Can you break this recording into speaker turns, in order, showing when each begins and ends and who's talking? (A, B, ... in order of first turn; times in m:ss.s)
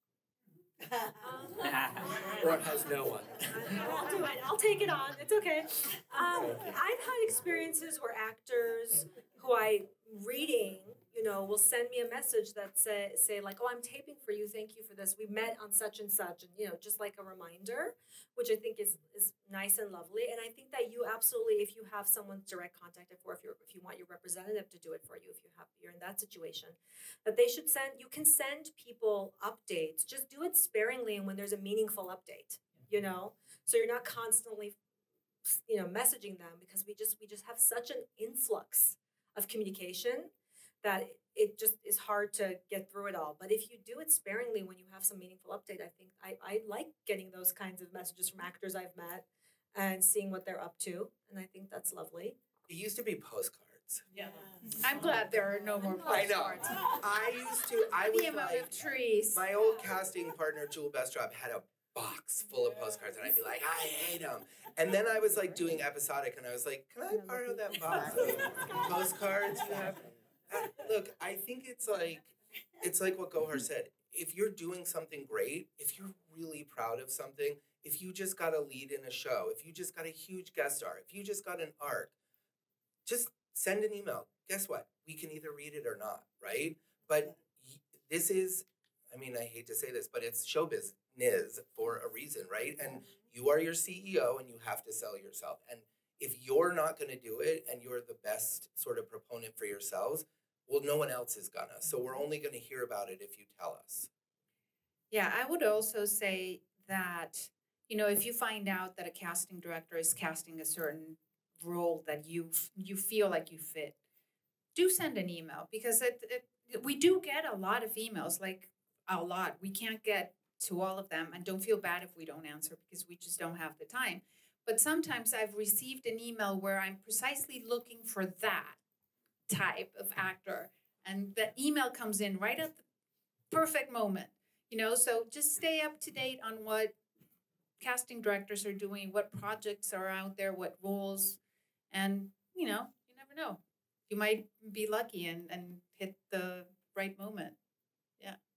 0:01.2-0:02.6 A
0:01.7-0:03.8 B
0:03.5-0:34.8 A
0:06.3-0:06.7 B
0:35.5-0:40.3 A
0:40.8-0:52.4 A
0:52.7-0:54.1 C
0:54.8-0:57.0 D
0:56.0-1:22.1 C
0:58.0-0:59.5 D
1:23.0-1:44.1 C
1:45.1-1:54.0 D
1:54.8-2:08.8 D
2:09.5-2:12.8 D
2:13.5-2:17.0 D
2:17.8-2:21.4 D
2:21.9-2:27.6 D